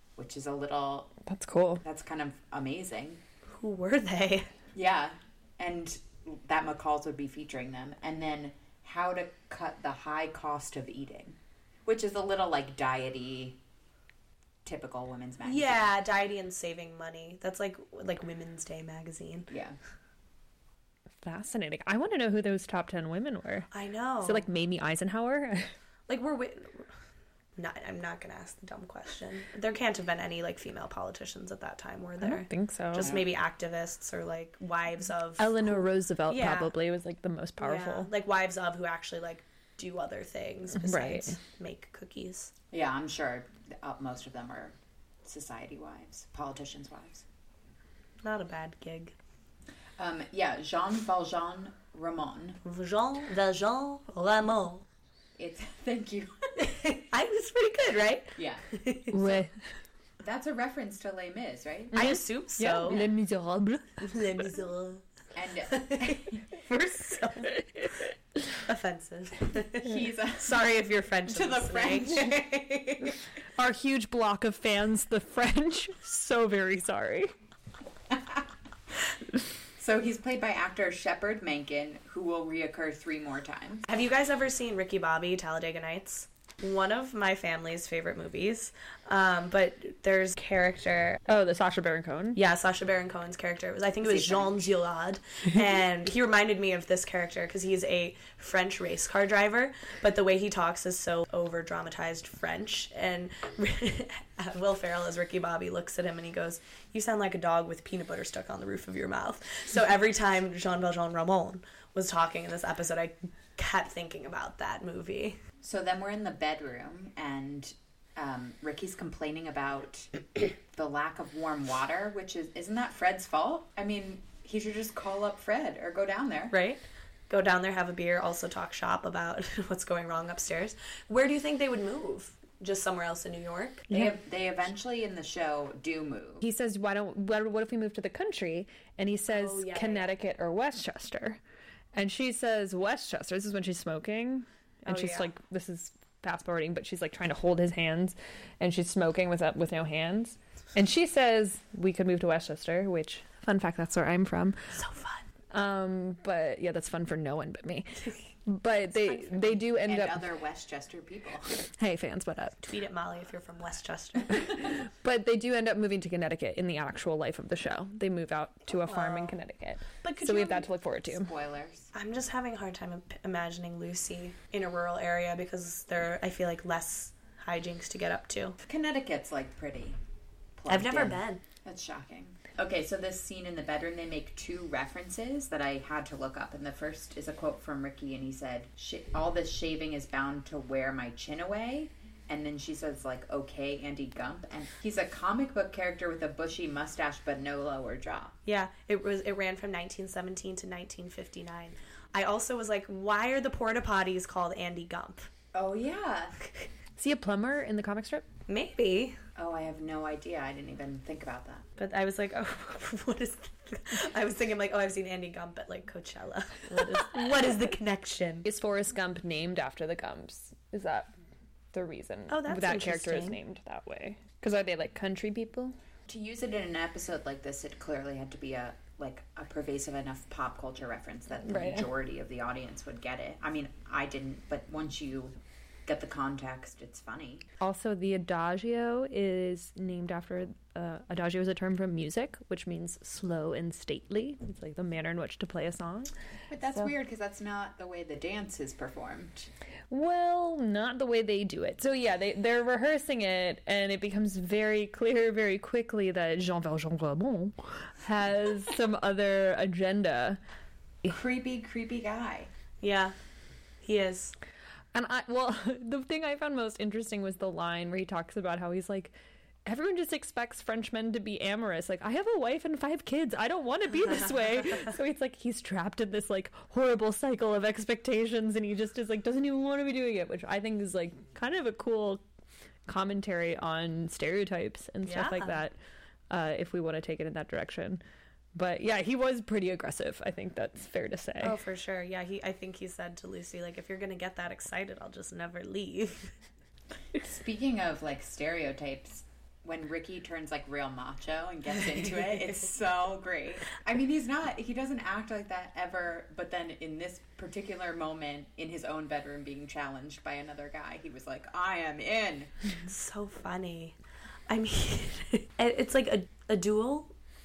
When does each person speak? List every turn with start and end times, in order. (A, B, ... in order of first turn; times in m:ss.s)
0:00.2-0:01.1 A
0:01.3-0:01.8 B
0:01.8-0:03.2 A
0:03.4-0:04.5 C
0:04.7-0:13.6 A
0:14.6-0:15.8 A
0:15.4-0:19.5 C
0:19.5-0:19.8 A
0:21.2-0:23.7 B
0:23.7-0:24.5 C
0:24.2-0:25.7 B
0:26.1-0:26.9 C
0:27.6-0:36.7 C
0:32.2-0:33.1 B
0:33.0-0:33.2 A
0:35.4-0:38.1 B
0:37.6-0:42.5 C
0:40.8-0:41.3 B
0:42.7-0:47.2 A
0:48.2-0:49.1 C
0:50.0-0:52.6 A
0:52.6-0:54.8 C
0:55.4-0:56.7 A
0:56.6-0:59.3 C
0:58.4-0:58.6 A
0:59.1-0:59.6 B
1:00.2-1:02.0 A
1:01.9-1:03.0 C
1:01.9-1:04.0 B
1:04.0-1:05.0 C
1:05.3-1:06.4 A
1:05.7-1:13.2 C
1:09.8-1:10.6 A
1:11.3-1:12.4 A
1:13.6-1:17.3 B
1:18.1-1:18.4 A
1:19.8-1:23.8 A
1:23.9-1:31.2 C
1:31.3-1:32.4 B
1:32.3-1:55.4 C
1:34.0-1:34.7 A
1:55.6-2:06.5 A
2:06.5-2:13.9 C
2:13.9-2:16.4 A
2:16.4-2:21.4 B
2:19.3-2:20.1 C
2:21.9-2:34.6 B
2:24.8-2:25.3 C
2:34.7-2:35.2 C
2:35.5-2:40.2 B
2:39.1-2:41.6 A
2:41.8-2:42.6 B
2:42.6-2:44.7 C
2:44.3-2:51.3 B
2:48.7-2:49.4 C
2:50.0-2:50.7 C
2:51.1-2:51.9 A
2:51.9-2:58.6 C
2:58.6-3:00.0 A
3:00.6-3:18.3 A
3:00.7-3:01.4 C
3:18.4-3:25.3 C
3:25.5-3:26.5 A
3:27.0-3:28.2 B
3:28.5-3:29.2 C
3:29.4-3:31.6 A
3:31.8-3:38.5 C
3:38.4-3:41.1 B
3:41.7-3:45.7 B
3:42.3-3:43.4 C
3:46.1-3:55.3 A
3:51.5-3:51.8 B
3:55.8-3:57.5 A
3:57.6-4:06.1 B
4:06.5-4:09.5 A
4:09.9-4:20.4 B
4:21.0-4:22.5 A
4:22.8-4:23.1 C
4:23.8-4:24.3 C
4:24.9-4:29.1 B
4:29.6-4:42.2 B
4:42.9-4:45.7 B
4:45.0-4:45.6 C
4:46.3-4:48.0 B
4:48.5-4:51.6 B
4:51.4-4:56.3 C
4:57.1-5:12.5 A
5:12.8-5:14.0 C
5:14.5-5:17.1 C